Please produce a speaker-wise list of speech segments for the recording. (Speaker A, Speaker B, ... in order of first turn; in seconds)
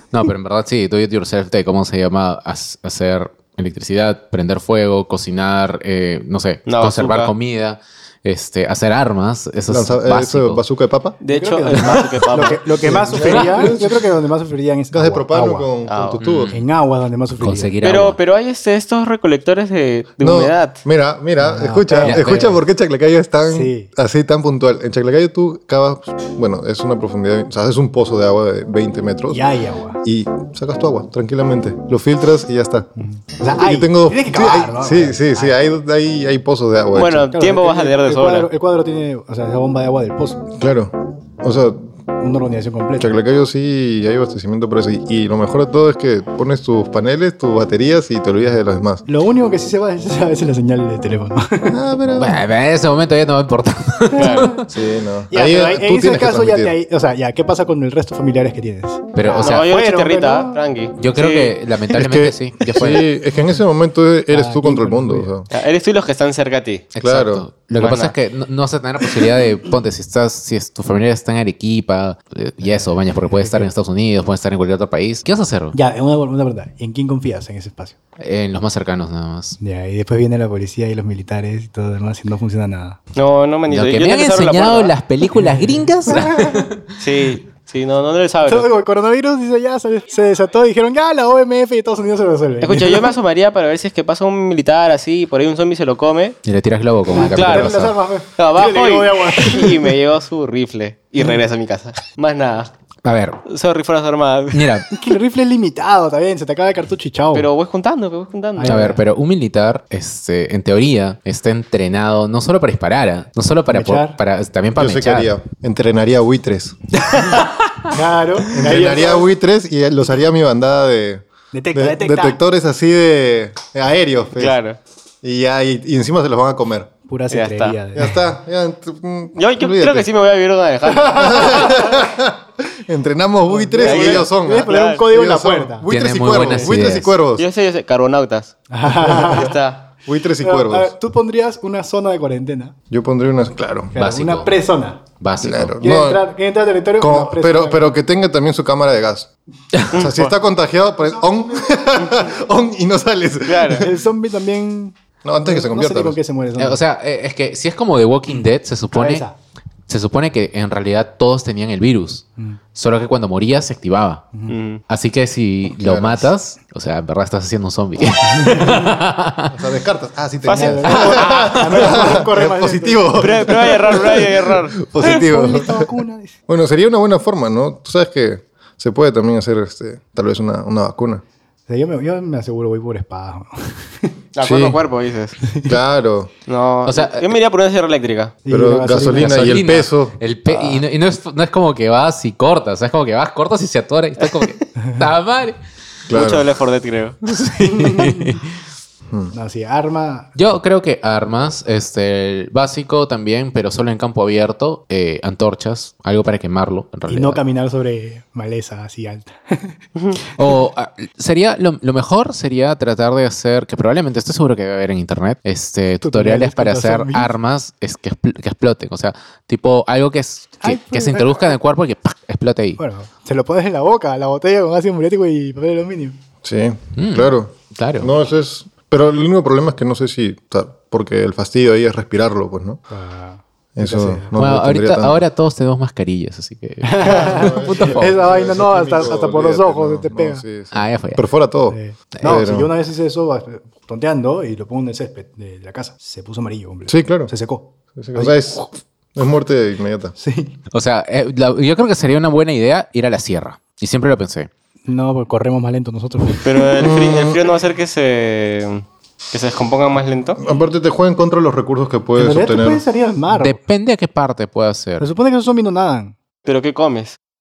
Speaker A: 0.1-10.6, 16.2-16.6, 17.4-18.2, 22.0-22.5, 52.2-54.7, 59.1-59.7, 61.0-63.1, 66.9-75.8, 78.2-79.6, 83.7-87.0, 96.4-97.9, 103.0-103.4, 104.5-104.8, 108.6-115.3, 135.9-137.2, 143.9-144.6, 145.2-145.7, 156.6-159.3, 159.9-164.3, 164.9-169.5, 186.8-187.4, 189.1-195.6, 197.2-198.5, 200.3-207.4, 210.3-222.8, 227.0-228.1, 234.3-238.2, 240.7-241.2, 250.7-254.5, 263.3-265.1
Speaker B: 6.7-7.3, 11.2-13.0, 15.9-16.2, 17.8-20.8, 36.9-38.5, 54.1-54.5, 59.3-61.5, 65.5-66.8, 67.8-68.1, 83.1-84.9, 87.0-88.7, 92.6-96.4, 97.2-97.8, 98.4-102.7, 103.5-104.8, 107.3-108.9, 124.3-124.8, 127.3-127.8, 129.3-131.8, 133.8-135.0, 136.4-139.9, 149.9-150.3, 153.4-153.9, 164.5-164.8, 170.4-172.1, 173.1-174.8, 184.3-185.3, 186.4-188.3, 190.5-190.8, 196.1-198.2, 256.4-260.4, 266.4-267.2
Speaker C: 9.7-11.2, 12.8-14.1, 14.9-16.5, 20.2-29.4, 30.0-32.9, 33.5-37.2, 40.6-41.9, 43.0-49.0, 51.7-52.4, 54.7-56.7, 61.9-65.5, 67.0-67.5, 114.8-116.8, 118.5-124.5, 125.2-126.9, 127.9-130.1, 131.2-137.4, 140.0-140.9, 142.9-143.9, 145.4-146.3, 147.0-149.3, 149.9-153.9, 155.2-156.2, 165.8-166.3, 169.5-175.9, 176.5-181.2, 184.4-184.8, 185.6-186.3, 188.5-190.2, 196.1-196.4, 226.4-232.8, 233.8-235.2, 237.0-242.7, 246.9-247.3, 247.9-250.1, 256.8-257.4, 260.4-262.8
Speaker D: 11.3-15.7, 16.5-17.7, 21.4-22.6, 23.5-23.9, 29.3-30.0, 33.0-35.6, 37.3-40.5, 42.2-43.1, 49.0-51.8, 54.2-54.5, 55.3-60.6, 64.3-65.3, 72.7-73.7, 75.7-77.9, 79.6-83.0, 85.4-86.6, 88.4-93.1, 97.1-99.9, 104.9-107.5, 108.5-109.0, 113.7-114.2, 117.9-119.3, 121.5-122.4, 127.1-128.2, 133.5-135.9, 138.7-139.5, 140.4-142.7, 143.9-145.0, 145.8-147.9, 153.8-156.8, 158.9-159.3, 168.4-168.7, 170.5-173.4, 175.0-176.3, 181.7-184.1, 188.4-189.6, 199.3-200.3, 207.1-209.8, 216.0-217.3, 220.6-221.6, 222.8-226.2, 232.9-234.3, 236.8-240.4, 241.7-248.5, 250.2-250.6, 254.8-256.7, 262.1-263.6, 265.0-266.1